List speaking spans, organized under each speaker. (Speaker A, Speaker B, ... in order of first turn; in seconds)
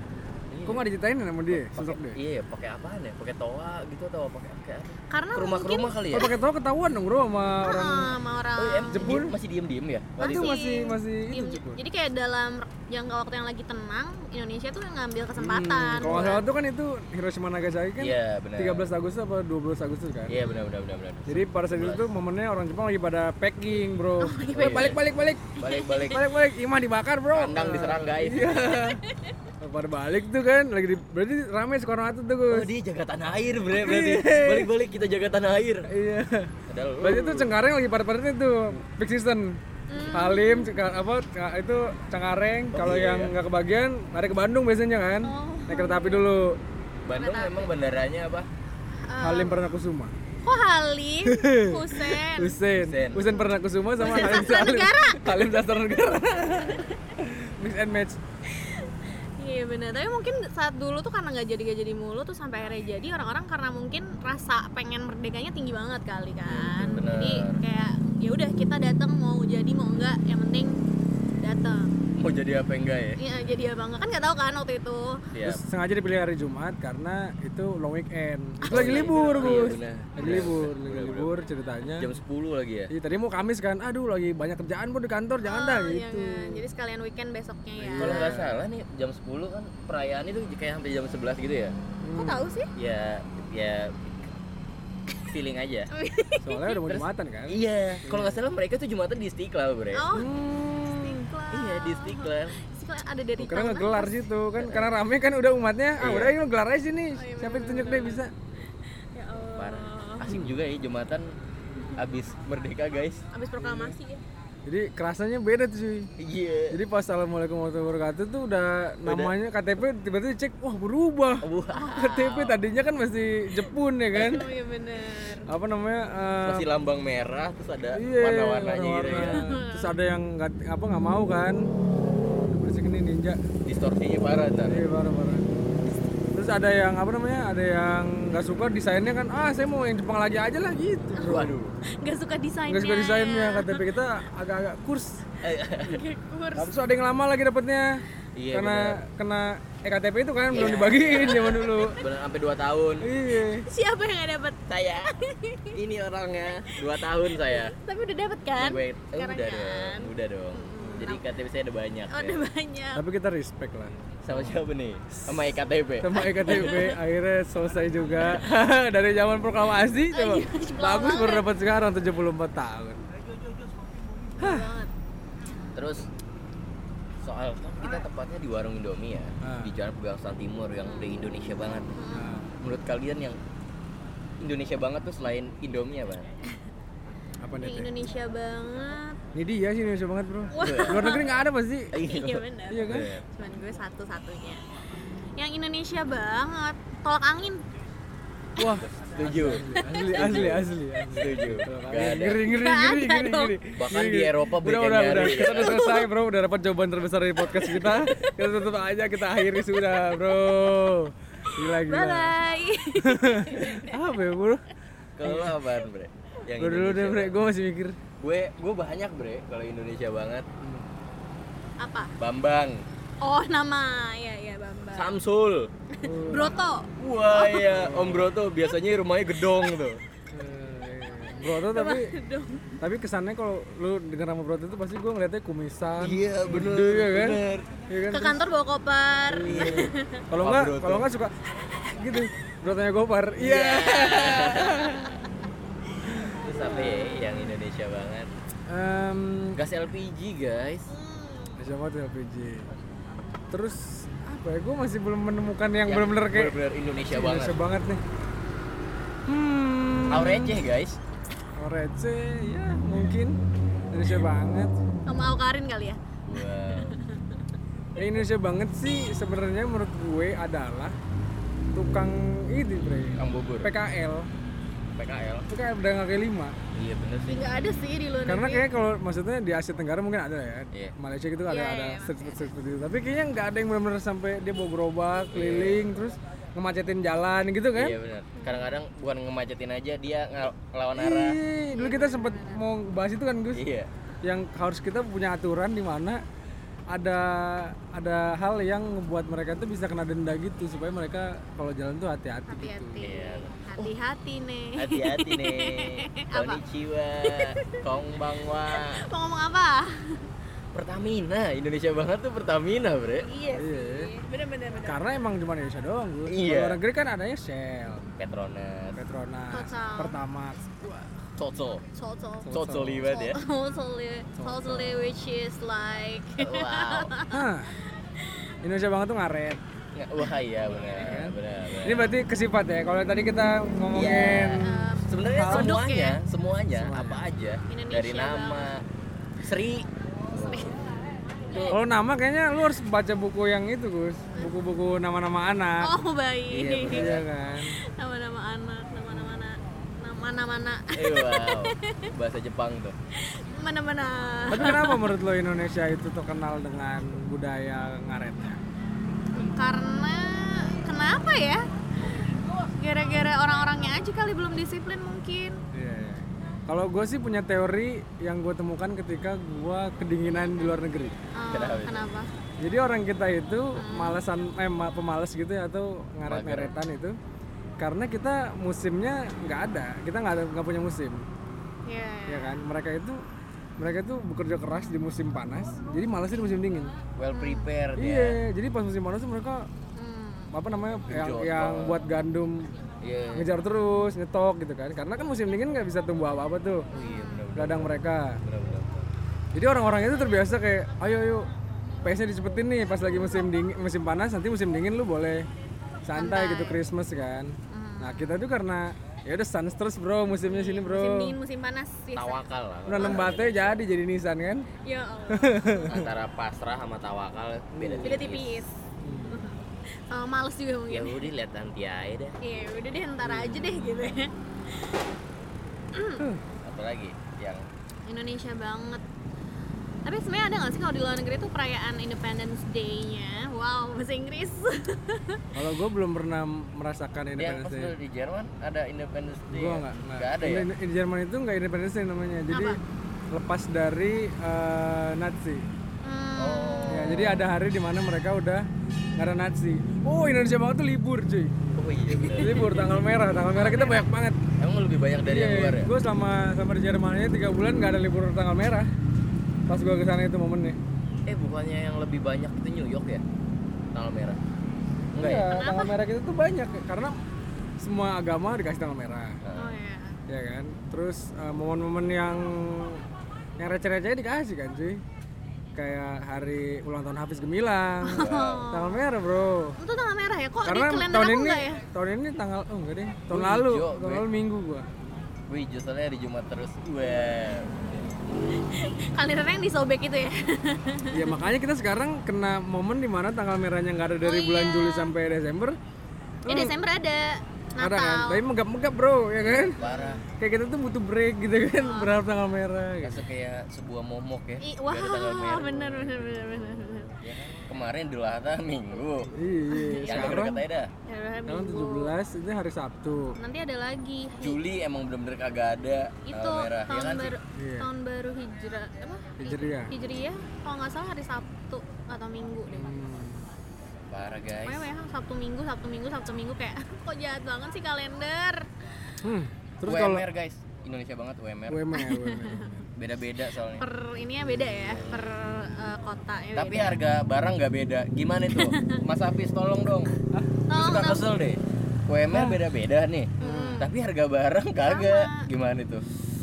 Speaker A: 0.5-0.8, 1.5-6.3, 8.6-10.6, 18.0-18.9, 20.3-22.1, 24.5-25.0, 25.6-26.3, 27.3-28.8, 32.5-35.9, 36.7-37.5, 42.7-43.3, 47.0-48.5, 52.8-53.2, 66.8-67.6, 72.2-73.2, 75.3-75.6, 78.7-81.4, 82.0-82.9, 88.0-91.7, 92.7-94.3, 95.2-95.9, 96.9-100.1, 101.5-102.6, 104.6-104.9, 106.0-106.3, 109.5-111.3, 111.9-113.2, 116.2-116.8, 119.0-119.3, 121.4-122.6, 126.4-129.4, 133.6-134.8, 141.2-141.7, 145.4-146.0, 148.3-149.0, 150.5-153.1, 154.7-155.1, 155.7-157.8, 158.6-162.4, 164.2-166.8, 175.7-176.1, 177.2-181.9, 182.6-183.4, 184.4-186.3, 190.6-191.2, 191.9-193.2, 198.6-202.5, 203.8-206.0, 215.2-217.3, 218.2-220.5, 222.2-222.8, 224.9-225.7, 227.0-230.0, 236.0-237.7, 239.4-241.1, 243.4-245.1, 246.2-248.3, 249.5-250.9, 255.8-257.6, 260.1-261.0, 266.2-267.0, 273.2-273.7, 275.0-275.5, 276.7-277.5, 285.3-285.9, 287.7-291.4, 293.5-293.9, 303.0-303.9, 304.8-309.0, 310.7-313.3, 316.3-316.8, 318.2-319.0, 321.4-321.8, 322.5-323.4, 326.4-327.1, 329.9-332.1, 333.9-338.8, 339.4-340.8, 346.5-347.2, 350.9-352.9, 371.5-372.1, 376.2-376.7, 387.2-388.4, 391.0-392.0, 393.0-393.5, 396.9-399.0, 412.1-413.8, 415.9-418.6, 420.9-422.4, 426.6-427.6, 437.4-440.7, 446.4-447.4, 451.8-452.7, 454.6-455.9, 461.2-463.2, 463.9-464.4, 465.1-465.5, 469.4-469.8, 478.1-478.6, 483.3-484.2, 485.5-488.0, 499.4-500.2, 503.0-505.9, 507.1-509.3, 510.0-510.9, 514.4-517.3, 524.1-524.9, 529.8-531.9, 533.0-533.8, 534.6-535.2, 536.5-540.1, 540.7-546.1
Speaker B: 0.7-2.2, 6.1-8.1, 8.9-9.3, 10.2-11.8, 15.4-20.4, 21.3-25.5, 26.1-29.0, 29.6-32.7, 33.7-34.7, 35.9-39.6, 40.1-46.6, 49.2-50.1, 51.2-58.2, 66.5-67.1, 75.4-82.1, 82.9-86.6, 87.8-88.7, 92.0-92.5, 96.4-98.4, 100.1-101.2, 103.4-108.3, 110.3-110.6, 113.6-114.0, 114.7-116.1, 116.7-124.5, 125.5-126.7, 127.9-131.7, 132.5-133.4, 134.6-135.5, 136.3-141.6, 142.7-145.2, 146.6-152.0, 153.0-153.7, 160.8-161.1, 162.9-164.6, 165.1-173.0, 174.4-174.7, 179.4-179.7, 182.1-182.5, 187.4-187.9, 189.3-191.9, 192.7-193.1, 198.6-212.3, 213.0-214.6, 215.2-215.6, 216.6-218.0, 220.6-220.8, 226.0-226.6, 227.6-228.3, 230.3-232.1, 232.8-238.4, 239.3-245.1, 246.3-247.4, 248.7-249.6, 251.6-252.7, 253.5-258.0, 259.3-260.6, 261.6-263.4, 263.9-264.7, 267.9-270.9, 271.7-274.3, 275.5-276.6, 278.2-288.0, 290.9-293.6, 294.2-296.2, 296.9-303.1, 313.5-314.1, 314.8-318.0, 318.9-321.2, 322.4-323.1, 324.4-325.2, 327.3-327.7, 328.6-329.6, 330.9-335.7, 336.7-337.2, 341.7-345.9, 346.8-347.7, 354.5-358.6, 365.7-371.1, 372.6-377.2, 377.8-381.2, 382.3-383.2, 383.8-386.9, 387.9-389.7, 390.5-392.7, 393.3-396.9, 397.5-398.4, 399.5-401.5, 402.0-405.5, 406.0-411.4, 412.9-414.7, 415.3-416.1, 417.7-418.3, 419.0-419.5, 423.3-423.6, 435.5-437.9, 439.5-442.8, 443.3-445.6, 446.9-451.5, 452.3-454.4, 455.2-458.9, 459.7-460.8, 465.1-467.2, 467.8-469.4, 470.3-473.0, 473.6-475.0, 475.7-479.8, 480.6-484.9, 491.1-495.8, 496.4-496.8, 497.8-499.8, 500.3-503.2, 505.7-506.2, 509.3-510.6, 511.5-513.4, 517.5-517.9, 519.4-519.9, 522.7-523.4, 529.2-530.2, 531.7-532.9, 542.3-542.6, 543.4-543.8
Speaker C: 5.1-6.3, 7.6-9.2, 10.2-16.4, 20.4-20.7, 24.2-25.0, 25.6-26.2, 29.0-29.3, 39.9-40.7, 45.2-46.3, 47.1-47.7, 49.0-49.6, 50.4-52.6, 53.1-55.5, 58.5-70.8, 71.4-71.9, 73.2-75.2, 78.6-80.5, 85.4-88.4, 92.1-92.7, 95.9-96.8, 99.9-100.3, 100.9-104.2, 107.1-108.2, 109.1-110.3, 113.3-114.2, 121.7-122.0, 124.1-125.5, 129.1-129.9, 141.2-143.9, 145.8-146.7, 151.0-151.9, 153.6-155.8, 157.3-161.2, 162.1-163.0, 166.1-167.0, 170.1-171.5, 174.4-174.9, 180.8-181.2, 181.9-182.3, 187.6-189.2, 190.5-191.3, 192.0-194.6, 195.4-197.6, 202.4-203.6, 205.6-206.0, 207.6-208.3, 211.6-214.0, 221.8-222.1, 223.2-225.1, 225.9-227.7, 231.5-232.8, 238.1-240.2, 250.9-251.6, 265.1-266.0, 266.6-267.4, 277.3-278.7, 281.5-282.5, 288.4-288.7, 291.7-292.6, 302.5-306.6, 307.2-307.8, 308.7-310.2, 313.2-315.1, 319.5-320.2, 321.9-322.5, 323.1-327.4, 334.6-336.2, 337.7-338.7, 340.5-340.9, 341.5-341.8, 345.8-347.2, 348.0-352.1, 353.3-355.1, 359.3-365.6, 371.3-372.3, 373.7-374.2, 381.9-382.6, 387.3-387.7, 389.9-390.5, 396.9-397.4, 406.1-406.8, 407.7-408.4, 410.4-412.4, 414.8-415.9, 418.0-421.3, 422.4-425.0, 425.9-426.2, 428.1-429.0, 430.0-435.4, 442.5-442.8, 446.0-447.4, 452.5-452.8, 453.5-454.0, 465.5-465.9, 469.5-470.2, 478.0-479.1, 479.8-481.8, 488.5-491.4, 494.2-495.1, 496.5-498.4, 499.8-500.2, 501.8-502.1, 504.6-507.1, 509.7-510.4, 511.1-512.1, 513.4-514.6, 516.2-522.9, 524.6-528.7, 531.9-532.7, 533.8-537.0, 538.5-539.0, 540.7-541.3, 543.4-543.9, 544.8-545.5